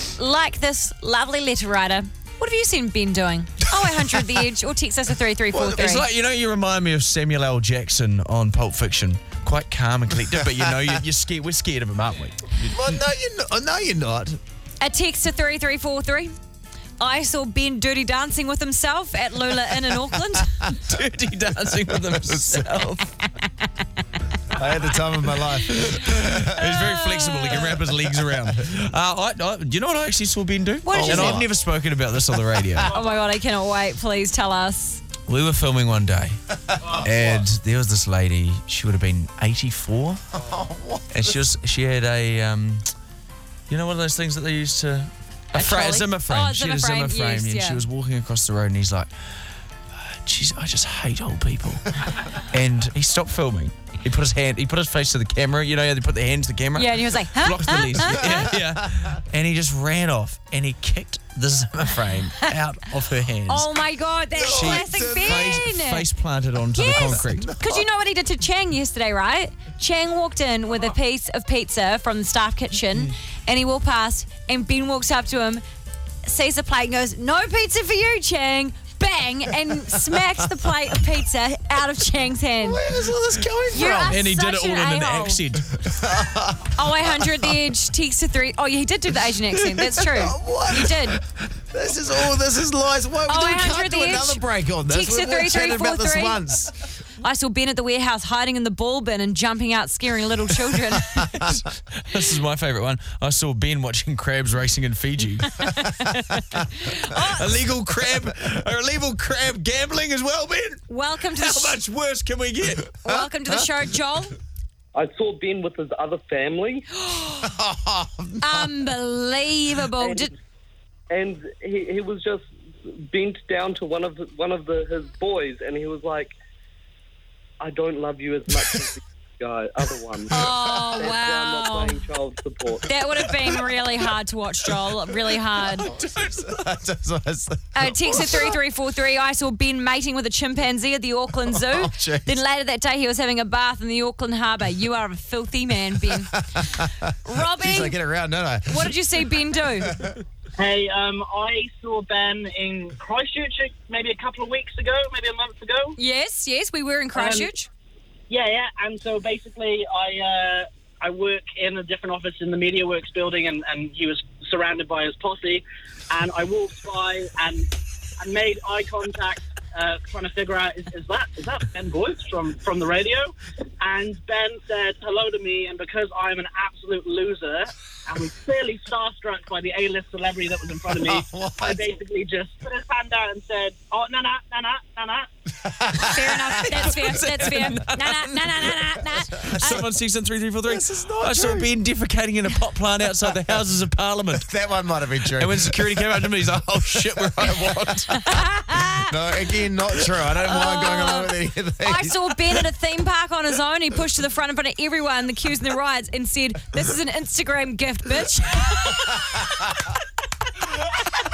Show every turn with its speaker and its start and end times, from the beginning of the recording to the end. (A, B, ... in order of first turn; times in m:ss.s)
0:00.2-0:06.0 A
0:05.5-0:06.0 B
0:05.7-0:12.8 C
0:12.6-0:14.4 B
0:14.8-0:16.3 A
0:17.0-0:20.6 A
0:20.7-0:23.0 C
0:22.1-0:22.7 B
0:24.5-0:26.6 B
0:25.8-0:33.0 C
0:26.6-0:27.8 A
0:28.2-0:28.6 B
0:30.8-0:31.4 A
0:30.9-0:31.5 B
0:32.9-0:35.0 A
0:35.3-0:36.4 C
0:36.7-0:37.1 B
0:36.9-0:40.2 C
0:40.3-0:41.4 B
0:41.1-0:42.9 C
0:43.7-0:49.1 C
0:45.6-0:47.8 A
0:49.9-1:03.7 C
0:56.8-0:58.5 A
0:58.0-0:59.1 B
1:03.5-1:06.0 A
1:04.4-1:05.6 B
1:04.5-1:07.5 C
1:06.8-1:07.9 B
1:06.8-1:15.6 A
1:16.2-1:22.8 A
1:22.6-1:24.2 B
1:23.7-1:25.4 A
1:24.1-1:25.8 C
1:25.8-1:27.5 B
1:26.8-1:31.2 A
1:30.0-1:36.7 B
1:33.3-1:36.6 A
1:37.2-1:41.4 A
1:41.4-1:45.8 C
1:45.6-1:47.4 A
1:47.2-1:53.0 C
1:50.9-1:51.8 A
1:53.0-1:54.4 A
1:54.9-1:56.9 D
1:57.0-1:57.5 A
1:57.4-1:58.9 B
1:58.4-2:00.3 A
2:00.0-2:00.3 D
2:01.1-2:06.3 D
2:07.6-2:13.0 D
2:10.3-2:12.0 A
2:12.9-2:15.9 A
2:15.6-2:18.6 B
2:15.6-2:16.7 C
2:17.7-2:28.0 A
2:21.4-2:22.4 B
2:26.1-2:29.3 B
2:28.7-2:30.0 A
2:29.8-2:30.2 B
2:30.6-2:36.0 E
2:36.0-2:37.7 A
2:37.1-2:37.5 E
2:38.3-2:47.7 E
2:48.2-3:05.3 E
3:01.0-3:01.8 B
3:05.6-3:07.2 B
3:06.0-3:09.8 A
3:06.3-3:08.7 C
3:09.4-3:14.5 C
3:10.6-3:11.7 B
3:14.3-3:18.0 B
3:15.4-3:18.1 C
3:18.2-3:19.1 A
3:18.9-3:22.6 B
3:20.4-3:29.7 A